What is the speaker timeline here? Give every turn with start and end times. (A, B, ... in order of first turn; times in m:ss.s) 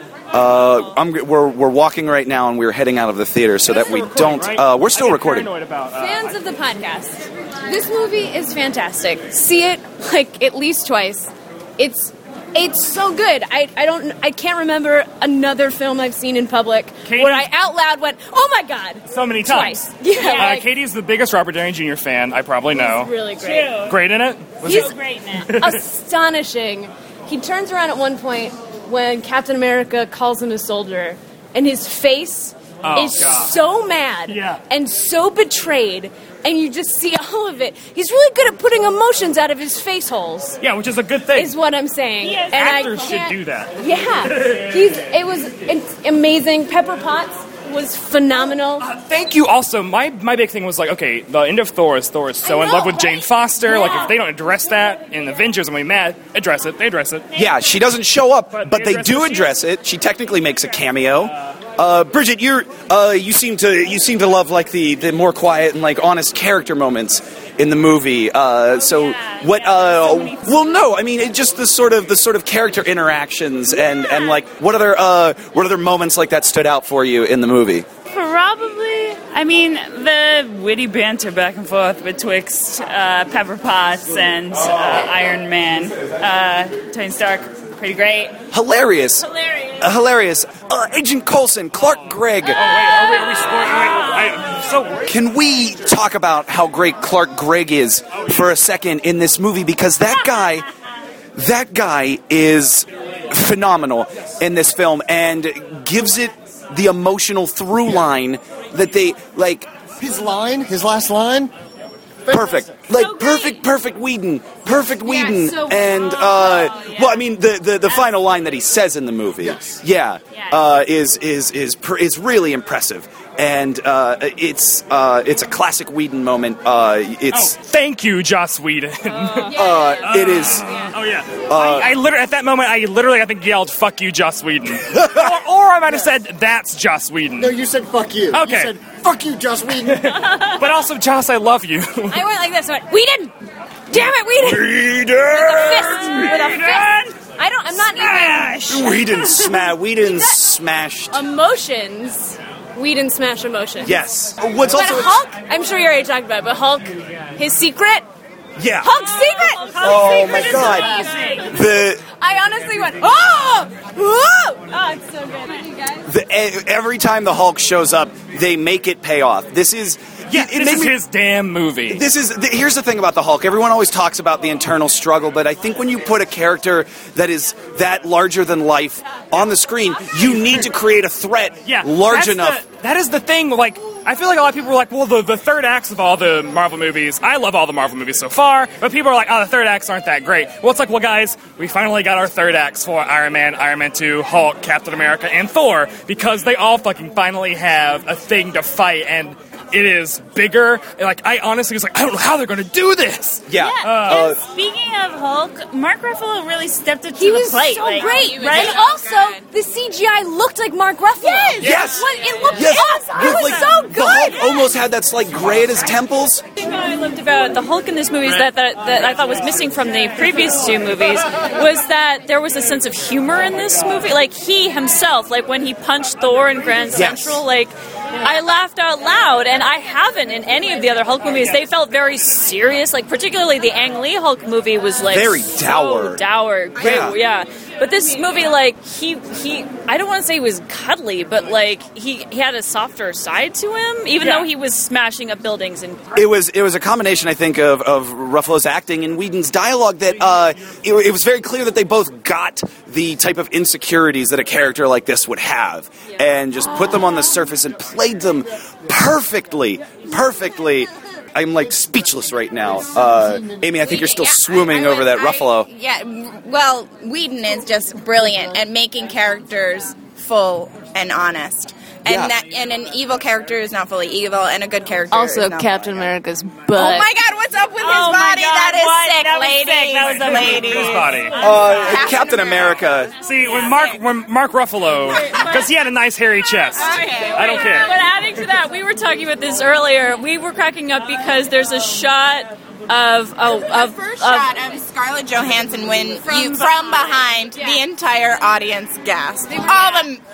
0:00.3-0:05.5 A
0:03.7-0:06.4 B
0:05.9-0:20.7 C
0:17.0-0:17.5 B
0:19.1-0:23.1 B
0:22.7-0:23.8 C
0:23.4-0:23.9 D
0:23.8-0:24.9 B
0:24.6-0:25.5 D
0:24.6-0:24.9 C
0:25.4-0:25.8 B
0:25.5-0:40.6 C
0:32.8-0:33.5 B
0:34.3-0:34.6 B
0:40.6-0:41.5 B
0:41.3-0:48.9 C
0:42.2-0:42.9 D
0:42.5-0:43.7 B
0:44.3-0:44.6 B
0:48.8-0:57.3 B
0:52.4-0:54.1 C
0:57.3-1:17.9 A
0:58.5-0:59.6 B
1:08.9-1:10.8 D
1:18.1-1:28.4 D
1:28.5-1:29.2 A
1:29.8-1:32.6 A
1:32.5-1:35.1 B
1:35.0-1:40.6 A
1:41.4-1:49.7 A
1:50.0-1:51.5 E
1:52.2-1:52.8 E
1:52.3-2:07.5 A
1:53.0-1:53.4 F
1:53.0-1:53.5 D
1:55.0-1:56.2 C
1:59.4-1:59.8 E
2:07.3-2:17.6 B
2:09.3-2:10.0 F
2:09.5-2:10.8 A
2:11.4-2:11.9 A
2:14.9-2:15.3 A
2:17.4-2:20.2 E
2:18.3-2:18.7 B
2:19.8-2:22.2 B
2:22.1-2:23.3 C
2:23.9-2:24.8 C
2:24.4-2:26.4 A
2:25.3-2:30.4 C
2:26.0-2:27.0 B
2:28.0-2:28.6 B
2:28.6-2:31.2 A
2:31.1-2:34.0 C
2:33.8-2:35.2 A
2:34.7-2:38.0 C
2:38.6-2:39.0 A
2:38.8-2:46.1 C
2:39.1-2:41.5 D
2:39.4-2:41.1 F
2:39.8-2:40.9 A
2:41.5-2:42.0 A
2:46.1-2:51.0 A
2:50.3-2:52.0 B
2:51.9-3:02.6 A
3:01.6-3:24.2 B
3:23.5-3:24.4 A
3:24.0-3:28.7 D
3:27.2-3:34.7 C
3:27.9-3:29.4 G
3:31.6-3:36.4 A
3:31.6-3:32.0 B
3:36.6-4:06.3 F
3:46.9-3:47.4 A
3:55.0-3:56.2 A
3:56.8-3:57.2 A
4:04.2-4:04.5 B
4:06.1-4:25.7 A
4:23.0-4:23.8 E
4:23.8-4:35.8 G
4:32.0-4:32.3 A
4:35.1-4:37.1 C
4:36.7-4:42.8 G
4:37.8-4:40.2 F
4:38.0-4:41.6 D
4:40.0-4:41.4 B
4:41.4-4:43.1 A
4:43.2-4:47.9 B
4:43.6-4:43.9 G
4:45.1-4:45.4 G
4:45.2-4:45.6 F
4:46.8-4:47.7 G
4:46.8-4:54.5 F
4:53.6-5:00.2 G
4:56.3-4:56.8 C
4:56.3-4:57.1 F
4:57.5-4:57.8 C
4:59.4-5:00.1 C